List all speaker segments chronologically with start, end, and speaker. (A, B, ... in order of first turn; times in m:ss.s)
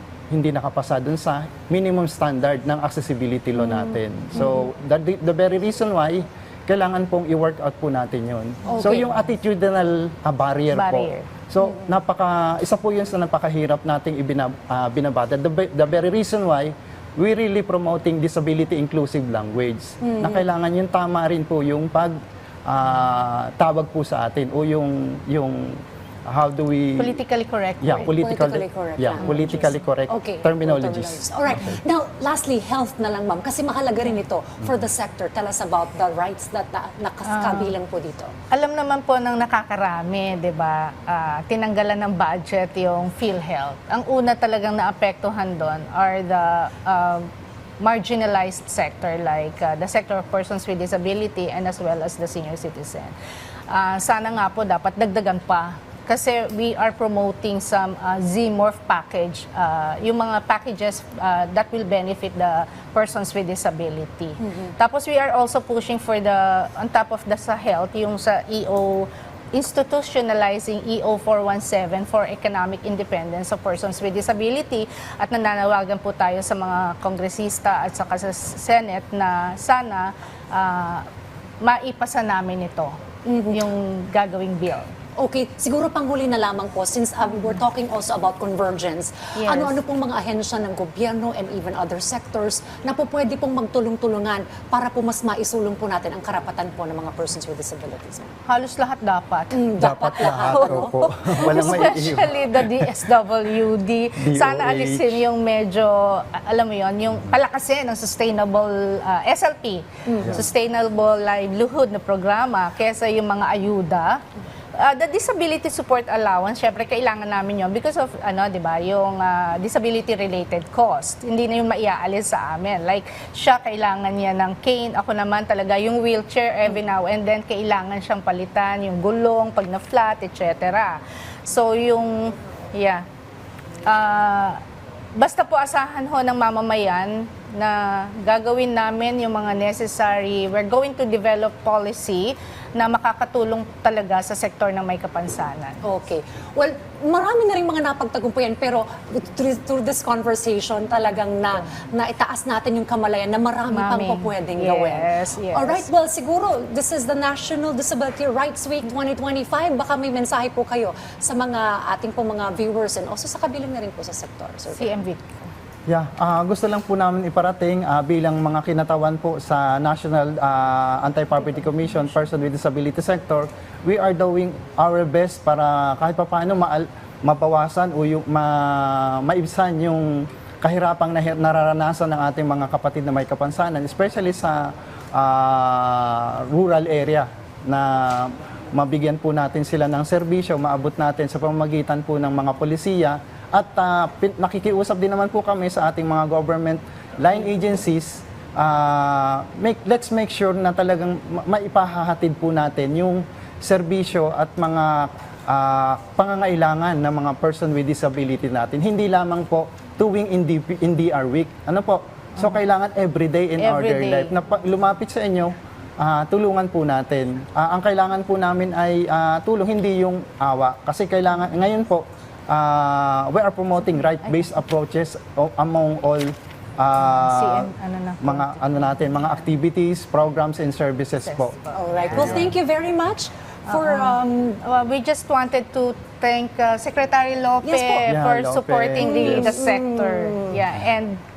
0:00.3-0:27.2 A
0:08.7-0:09.1 B
0:10.7-0:11.3 C
0:11.6-0:11.9 B
0:20.0-0:20.5 B
0:27.0-0:28.2 C
0:27.8-0:31.8 A
0:28.1-0:38.3 B
0:29.2-0:29.7 C
0:37.2-0:37.7 C
0:38.5-0:47.3 C
0:47.8-0:53.1 C
0:53.7-1:21.0 C
1:04.4-1:04.7 B
1:21.6-1:23.0 C
1:23.2-1:23.6 B
1:23.5-1:24.9 C
1:25.2-1:38.3 B
1:29.4-1:29.8 C
1:38.5-1:54.2 C
1:39.5-1:42.0 B
1:39.8-1:43.0 A
1:44.2-1:45.2 A
1:50.1-1:50.4 B
1:54.8-2:13.0 C
2:13.8-2:14.6 C
2:15.2-2:25.8 C
2:25.8-2:45.0 B
2:33.7-2:35.9 C
2:44.7-2:45.5 C
2:45.9-3:51.6 A
3:33.6-3:34.3 C
3:44.2-3:44.5 C
3:47.0-3:49.3 C
3:51.2-3:52.5 C
3:51.7-3:54.6 B
3:52.1-3:52.5 A
3:53.7-4:01.2 C
3:57.6-3:58.1 B
3:58.0-3:59.6 A
3:59.0-4:00.6 B